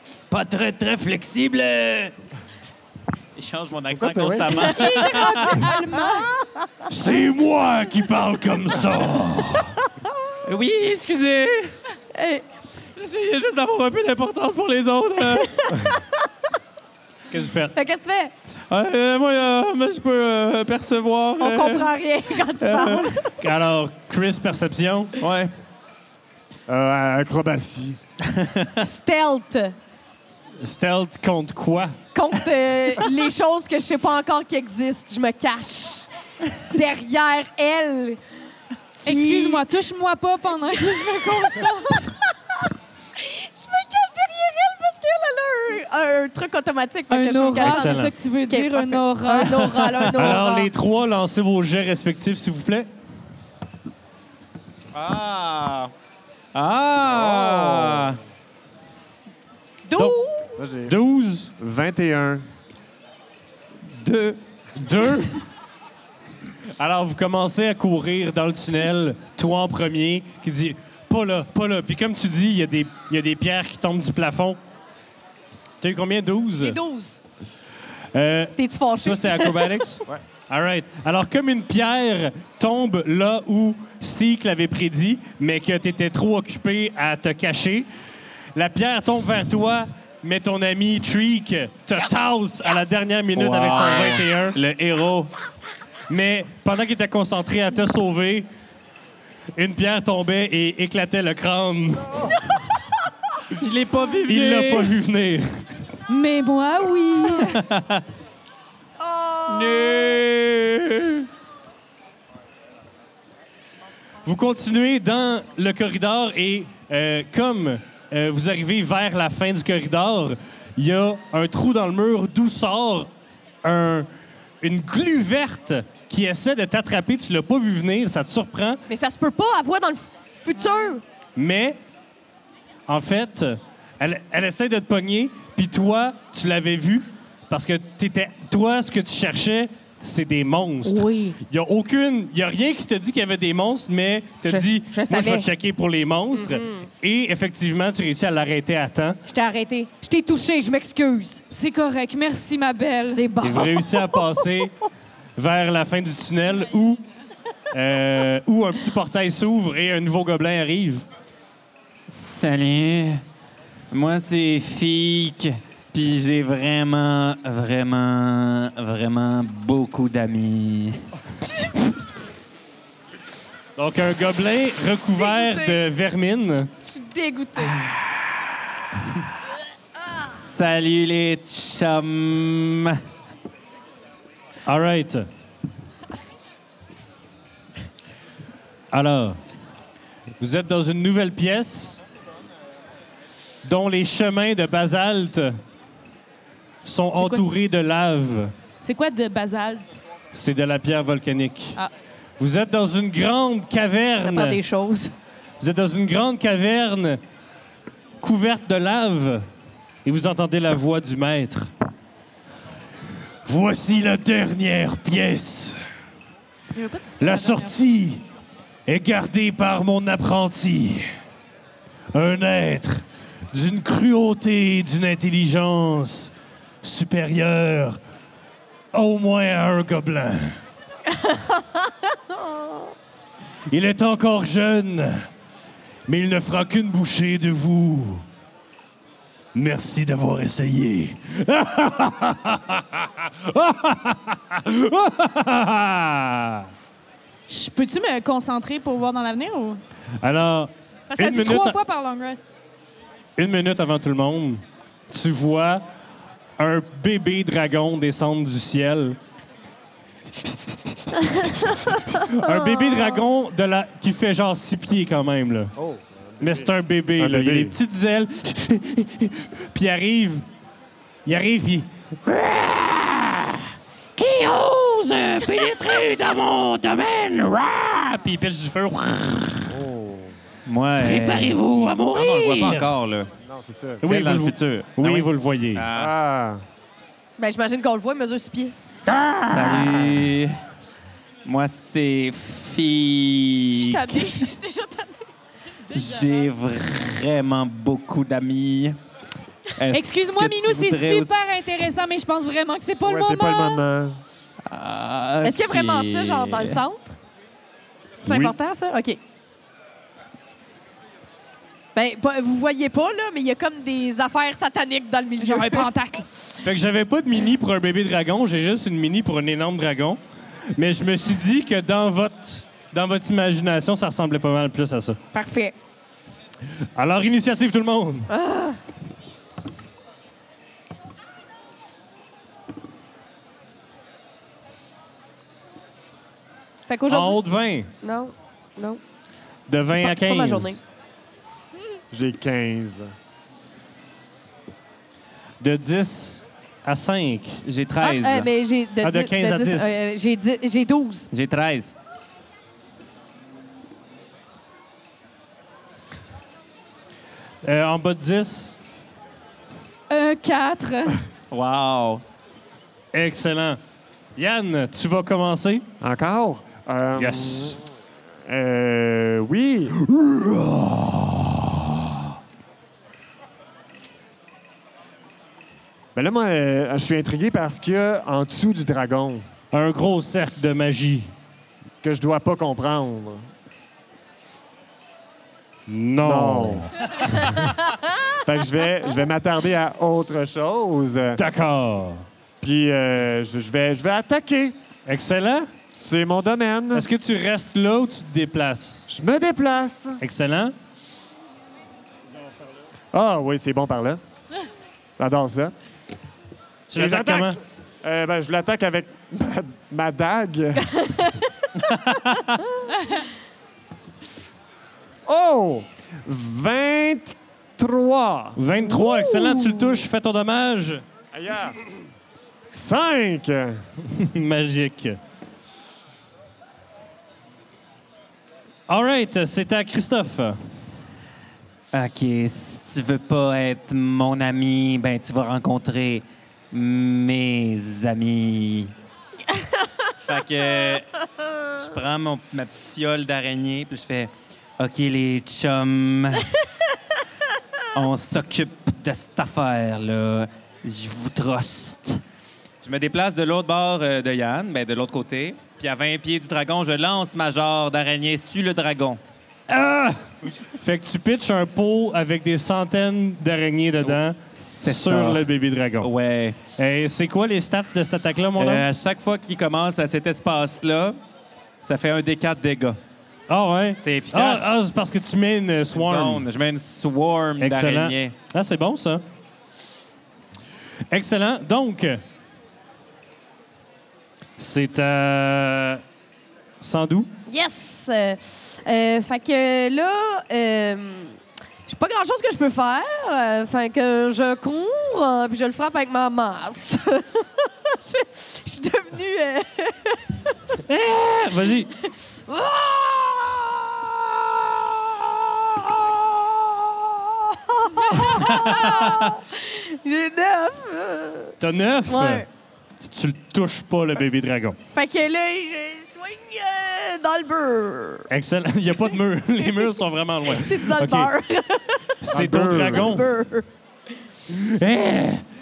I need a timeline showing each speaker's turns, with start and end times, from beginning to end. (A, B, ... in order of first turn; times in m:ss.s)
0:00.3-0:02.1 A
0:03.4-0:05.7 A
0:04.0-0:04.8 B
0:04.6-0:06.7 C
0:04.7-0:06.3 D
0:06.9-0:09.8 E
0:10.4-0:11.8 A
0:12.1-0:12.4 C
0:13.0-0:15.6 A
0:15.2-0:16.0 C
0:17.3-0:17.8 E
0:17.8-0:18.3 C
0:18.7-0:21.9 A
0:21.4-0:23.3 C
0:22.5-0:23.2 A
0:23.4-0:25.2 E
0:25.2-0:25.5 A
0:26.7-0:28.0 B
0:28.3-0:28.8 A
0:28.8-0:29.8 C
0:30.6-0:32.0 E
0:32.1-0:36.1 C
0:36.6-0:38.2 C
0:39.0-0:39.7 C
0:39.0-0:42.1 D
0:40.7-0:42.1 C
0:43.2-0:50.7 C
0:47.1-0:49.9 D
0:47.6-0:48.1 E
0:50.0-0:52.9 E
0:54.9-0:55.9 A
0:56.5-0:58.2 A
0:57.1-0:58.2 B
0:59.9-1:00.6 C
1:00.6-1:01.0 B
1:00.9-1:01.5 E
1:01.6-1:02.4 B
1:03.9-1:04.4 A
1:04.8-1:05.4 E
1:06.8-1:14.6 E
1:15.8-1:16.8 E
1:16.6-1:17.2 C
1:18.1-1:27.9 E
1:18.6-1:19.8 C
1:28.6-1:34.6 E
1:33.4-1:35.3 A
1:36.1-1:38.5 E
1:39.6-1:42.4 E
1:43.5-1:44.9 A
1:44.3-1:45.6 E
1:46.1-1:47.6 D
1:47.4-1:48.0 A
1:49.0-1:50.2 C
1:49.5-1:51.3 A
1:54.2-2:03.1 E
2:03.6-2:04.1 E
2:04.6-2:08.8 E
2:08.9-2:11.0 C
2:11.4-2:11.8 E
2:12.9-2:29.2 E
2:20.8-2:21.4 C
2:24.5-2:25.5 C
2:26.4-2:26.8 C
2:29.3-2:31.4 C
2:31.5-2:33.2 D
2:33.1-2:34.4 C
2:33.4-2:34.8 E
2:35.4-2:37.0 E
2:37.7-2:41.0 E
2:42.1-2:43.2 A
2:43.9-2:51.0 A
2:53.8-2:56.7 E
2:55.2-2:55.8 C
2:56.8-2:57.8 C
3:00.3-3:03.0 A
3:04.7-3:05.3 E
3:08.9-3:09.4 E
3:10.4-3:12.0 E
3:13.6-3:15.6 E
3:16.8-3:18.5 E
3:17.2-3:17.5 D
3:18.8-3:20.0 D
3:20.3-3:21.8 E
3:22.4-3:24.6 E
3:24.2-3:25.1 C
3:25.6-3:27.2 E
3:28.2-3:29.5 E
3:30.0-3:31.7 E
3:33.4-3:35.8 E
3:36.8-3:37.8 D
3:37.2-3:38.2 E
3:38.9-3:41.1 E
3:42.1-3:48.0 E
3:48.9-3:50.6 E
3:51.1-3:52.9 C
3:53.7-3:55.3 E
3:56.1-3:58.2 E
3:59.5-4:06.7 E
4:07.5-4:09.8 D
4:10.2-4:11.8 E
4:11.1-4:12.4 D
4:13.4-4:15.8 E
4:16.6-4:19.2 E
4:21.4-4:25.7 E
4:22.7-4:23.1 C
4:25.8-4:27.8 B
4:26.4-4:30.5 E
4:31.3-4:33.6 E
4:34.2-4:39.8 E
4:39.7-4:40.4 B
4:40.7-4:43.3 A
4:41.0-4:42.9 E
4:43.4-4:44.0 B
4:44.0-4:45.8 E
4:44.0-4:46.1 A
4:45.9-4:46.6 B
4:47.4-4:49.0 C
4:49.1-4:50.3 E
4:49.4-4:50.6 A
4:51.4-4:54.4 A
4:53.7-4:55.3 C
4:55.9-4:56.4 D
4:55.9-4:59.0 A
4:59.8-5:01.9 A
4:59.9-5:03.8 D
5:03.0-5:04.2 B
5:04.7-5:06.8 A
5:05.4-5:07.2 C
5:08.2-5:09.2 C
5:08.2-5:08.6 E
5:12.0-5:15.9 C
5:15.4-5:16.2 D
5:16.6-5:20.2 E
5:20.8-5:25.2 E
5:25.3-5:25.8 C
5:27.0-5:28.3 E
5:28.3-5:28.8 C
5:36.9-5:37.4 C
5:37.1-5:37.9 E
5:38.0-5:39.0 C
5:39.7-5:40.8 E
5:39.9-5:40.8 C
5:42.1-5:43.1 B
5:45.6-5:47.6 E
5:47.6-5:48.5 A
5:48.0-5:51.3 C
5:49.0-5:50.0 E
5:51.3-5:51.9 A
5:57.6-5:58.7 E
6:00.1-6:01.2 D
6:01.5-6:02.2 A
6:03.1-6:03.8 E
6:04.4-6:05.9 E
6:06.0-6:07.8 B
6:07.2-6:07.8 E
6:08.5-6:10.0 B
6:10.2-6:11.3 E
6:16.2-6:19.4 B
6:19.7-6:21.3 E
6:22.0-6:23.4 B
6:25.9-6:27.3 E
6:26.2-6:26.9 B
6:28.4-6:31.4 B
6:31.4-6:32.2 E
6:32.6-6:34.8 B
6:35.1-6:35.7 E
6:35.9-6:37.1 B
6:36.9-6:39.1 E
6:39.1-6:40.2 B
6:40.2-6:40.7 E
6:43.1-6:44.2 B
6:45.2-6:45.7 B
6:46.9-6:47.6 E
6:47.0-6:50.9 B
6:51.0-6:51.5 C
6:52.0-6:52.6 A
6:55.3-6:58.6 B
6:58.6-7:01.0 E
6:59.0-6:59.8 C
7:01.3-7:01.9 B
7:02.7-7:03.8 B
7:04.1-7:05.2 E
7:08.9-7:10.6 E
7:11.9-7:18.9 A
7:20.2-7:21.1 A
7:21.7-7:26.5 A
7:27.9-7:32.2 A
7:32.8-7:39.2 A
7:39.7-7:40.2 E
7:40.8-7:46.1 E
7:44.0-7:45.5 A
7:46.0-7:46.6 A
7:46.8-7:48.8 E
7:48.6-7:51.2 A
7:51.8-7:53.0 A
7:53.5-7:56.4 E
7:54.0-7:54.7 A
7:55.9-7:58.3 A
7:57.6-7:59.2 E
8:01.1-8:02.2 E
8:04.6-8:06.0 E
8:06.8-8:07.3 E
8:07.5-8:20.8 C
8:20.9-8:21.9 E
8:22.0-8:31.6 C
8:31.6-8:32.5 E
8:32.1-8:32.5 C
8:33.0-8:34.8 E
8:35.0-8:38.3 C
8:38.3-8:41.3 E
8:40.5-8:42.2 C
8:42.2-8:43.3 E
8:42.3-8:43.2 B
8:42.8-8:43.7 C
8:44.5-8:45.4 E